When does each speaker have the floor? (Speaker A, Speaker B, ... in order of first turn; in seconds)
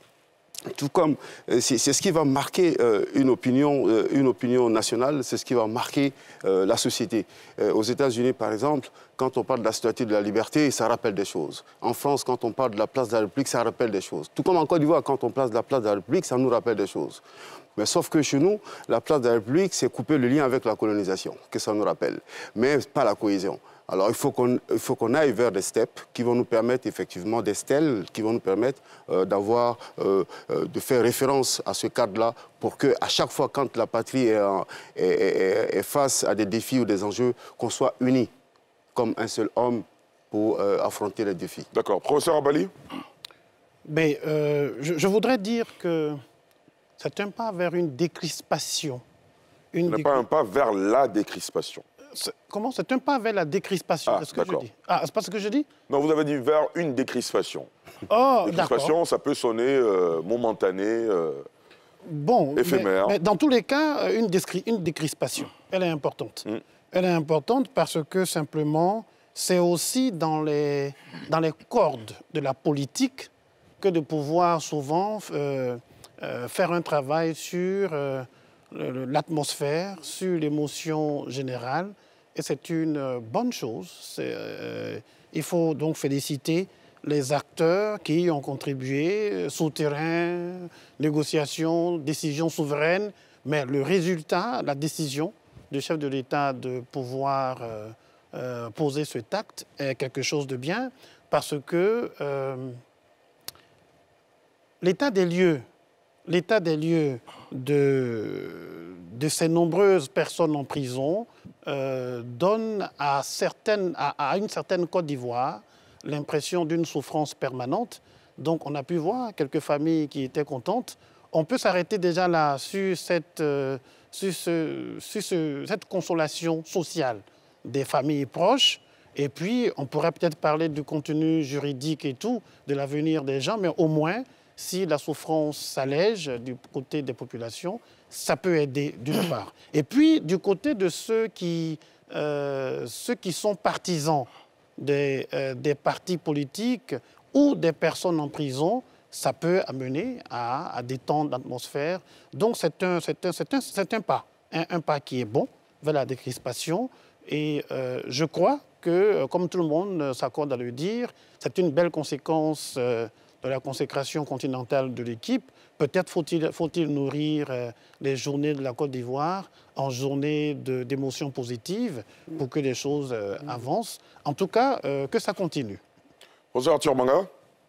Speaker A: 0.7-17.2, 17.8-38.3, 39.0-41.7
Speaker B: 41.7-42.7, 49.9-51.8, 54.1-54.7, 55.9-57.7, 58.4-61.5, 62.6-63.2, 176.5-177.3
Speaker C: 43.9-46.2, 47.0-49.0, 49.7-50.2, 52.1-55.7, 58.1-59.0, 62.1-73.3, 73.8-102.8, 104.8-105.7, 106.3-175.8